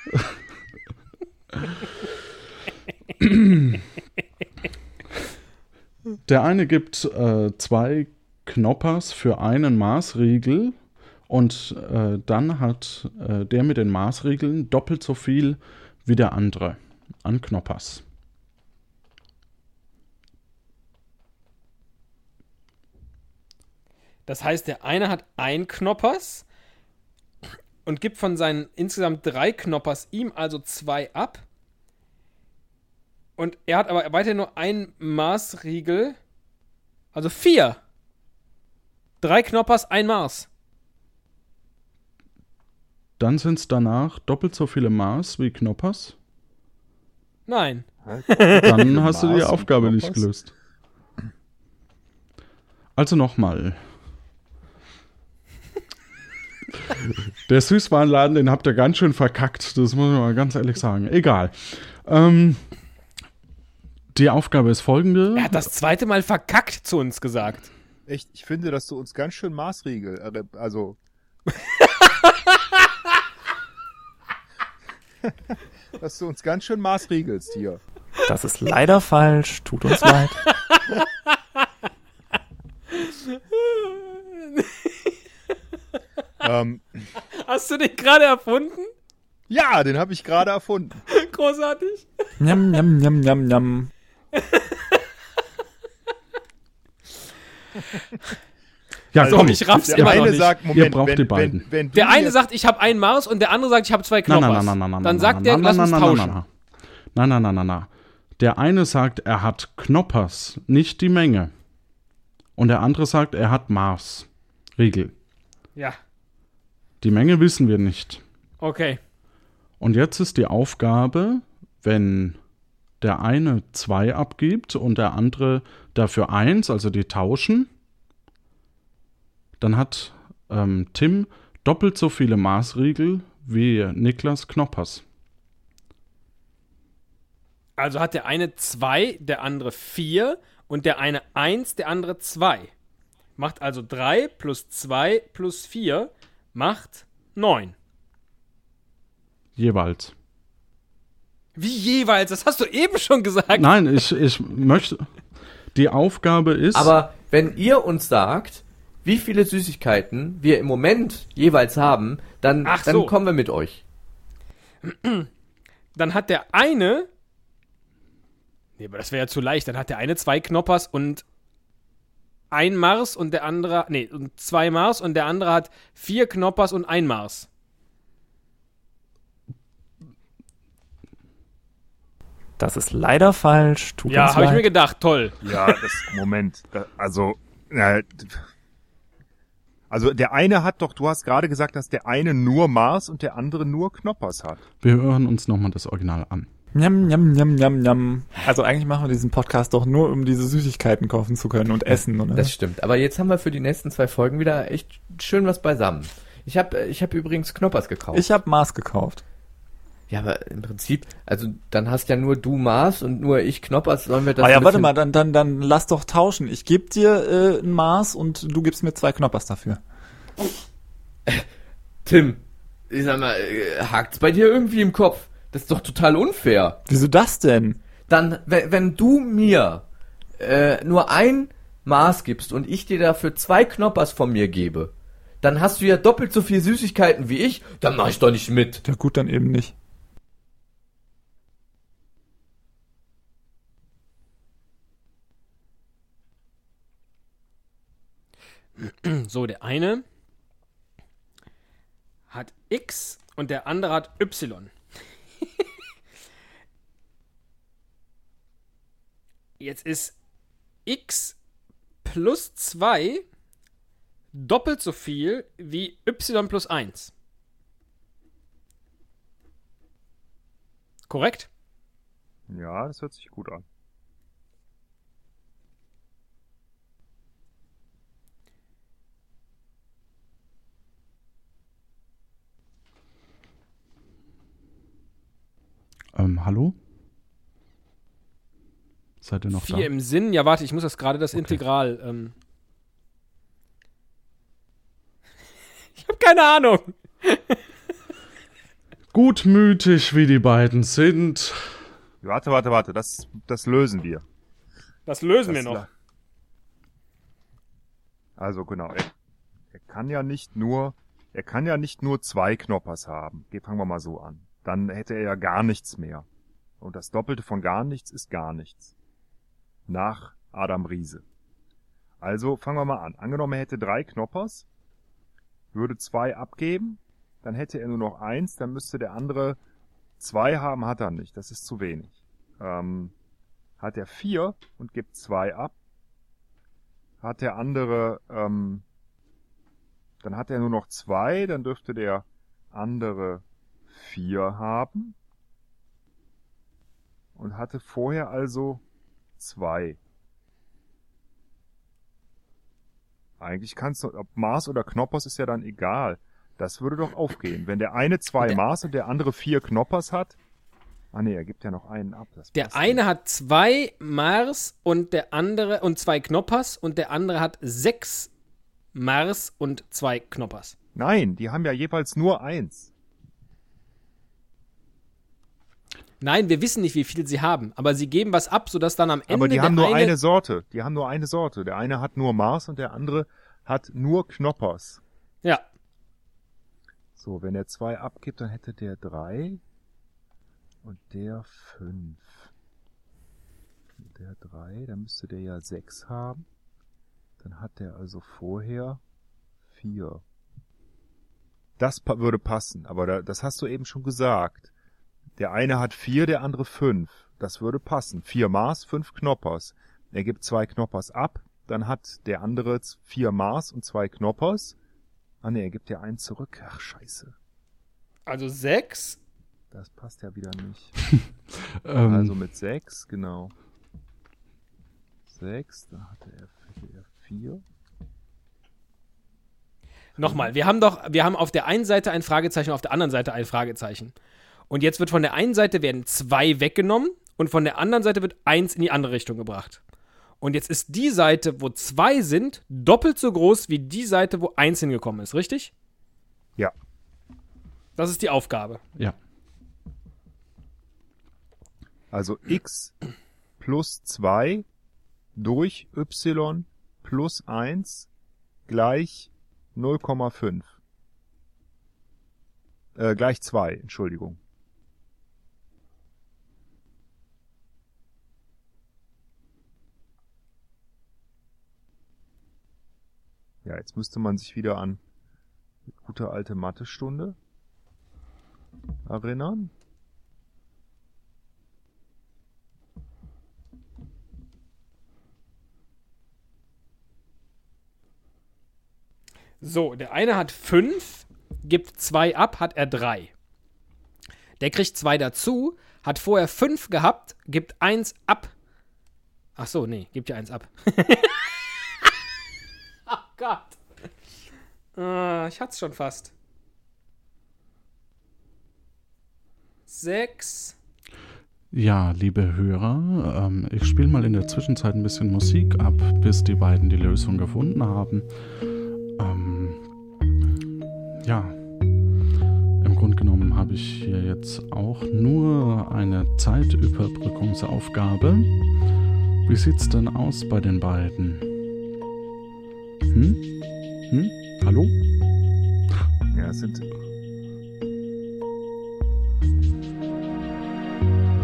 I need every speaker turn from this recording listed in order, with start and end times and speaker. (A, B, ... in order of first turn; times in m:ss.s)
0:03.2-0:03.8 A
0:06.3-0:10.8 A
0:11.3-0:18.0 A
0:24.3-0:26.5 B
0:27.8-0:31.4 B
0:33.4-0:36.2 B
0:37.1-0:37.8 B
0:39.2-0:40.5 B
0:43.2-0:46.2 A
0:47.5-0:48.8 B
0:48.0-0:50.3 C
0:48.6-0:50.5 A
0:53.0-0:53.8 A
0:57.5-1:02.6 A
1:04.2-1:05.7 A
1:05.4-1:07.7 B
1:08.1-1:11.0 C
1:16.0-1:17.8 C
1:18.3-1:20.4 D
1:23.0-1:24.7 B
1:26.4-1:27.0 C
1:27.4-1:28.9 B
1:29.5-1:31.0 C
1:31.1-1:32.1 B
1:32.4-1:33.9 D
1:34.4-1:34.6 B
1:39.1-1:41.7 A
1:39.2-1:42.4 C
1:39.2-1:40.6 B
1:41.9-1:46.4 B
1:44.3-1:46.5 A
1:47.1-1:47.9 A
1:48.4-1:51.5 A
1:52.6-1:54.3 A
1:54.8-1:55.1 A
1:57.0-1:58.2 A
1:58.6-1:59.0 B
1:59.8-2:02.4 A
2:03.0-2:07.7 A
2:09.6-2:15.0 A
2:17.8-2:22.7 B
2:23.4-2:27.8 B
2:29.6-2:30.1 A
2:31.6-2:33.7 B
2:33.5-2:35.1 A
2:35.7-2:37.0 A
2:36.7-2:43.8 E
2:42.6-2:43.1 B
2:44.8-2:45.3 B
2:46.0-2:47.1 B
2:48.8-2:51.2 B
2:52.5-2:57.5 B
3:02.6-3:04.7 D
3:04.1-3:05.4 B
3:05.4-3:08.4 C
3:09.9-3:14.6 C
3:14.8-3:16.5 A
3:16.8-3:22.5 D
3:22.4-3:28.2 E
3:28.1-3:29.2 D
3:30.1-3:34.9 E
3:34.4-3:39.8 D
3:42.0-3:46.8 E
3:46.9-3:47.8 D
3:48.1-3:49.8 E
3:50.4-3:54.9 E
3:55.4-3:58.8 E
3:58.8-3:59.7 D
4:08.8-4:10.0 B
4:12.3-4:14.7 B
4:19.6-4:20.2 B
4:20.9-4:21.4 B
4:22.0-4:23.2 B
4:24.3-4:27.1 B
4:31.1-4:31.5 B
4:32.5-4:33.6 C
4:46.2-4:46.8 A
4:49.2-4:49.9 A
4:49.5-4:52.3 B
4:51.4-4:51.6 A
4:56.0-4:57.6 B
4:59.1-5:01.6 A
5:02.2-5:04.2 C
5:05.1-5:05.8 B
5:05.5-5:05.9 C
5:08.4-5:09.1 C
5:09.8-5:16.3 C
5:16.8-5:18.9 C
5:19.9-5:21.2 C
5:22.2-5:24.6 C
5:25.7-5:29.6 C
5:30.2-5:33.1 C
5:33.8-5:35.7 C
5:37.2-5:38.8 C
5:40.2-5:45.2 C
5:47.4-5:48.8 C
5:49.4-5:50.0 C
5:53.4-6:00.4 C
6:01.1-6:03.0 C
6:02.6-6:08.3 B
6:09.0-6:10.7 B
6:11.0-6:12.9 C
6:16.2-6:20.1 B
6:19.3-6:25.0 C
6:27.2-6:29.6 C
6:30.8-6:32.5 C
6:34.0-6:36.4 C
6:37.4-6:39.0 C
6:39.7-6:40.2 C
6:41.8-6:44.7 C
6:45.4-6:54.8 C
6:55.4-6:57.4 C
6:58.3-6:59.2 B
6:59.7-7:01.0 C
7:01.8-7:02.3 A
7:02.1-7:03.5 C
7:05.3-7:07.6 C
7:10.2-7:10.5 C
7:10.2-7:14.1 B
7:14.7-7:19.8 B
7:20.4-7:25.7 B
7:28.0-7:28.8 B
7:32.1-7:33.0 C
7:33.6-7:34.6 C
7:35.4-7:38.1 C
7:38.7-7:40.7 C
7:43.0-7:44.4 C
7:53.6-7:55.0 C
7:55.9-7:57.4 C
7:59.1-7:59.7 C
8:09.6-8:13.3 B
8:14.6-8:18.5 B
8:19.6-8:21.4 B
8:23.1-8:23.8 B
8:25.0-8:26.3 B
8:29.9-8:30.8 B
8:31.7-8:38.3 A
8:39.2-8:39.8 A
8:41.2-8:41.6 A
8:42.8-8:48.5 A
8:49.5-8:51.5 A
8:53.1-8:53.4 A
8:54.1-8:54.9 A
8:56.3-8:56.9 C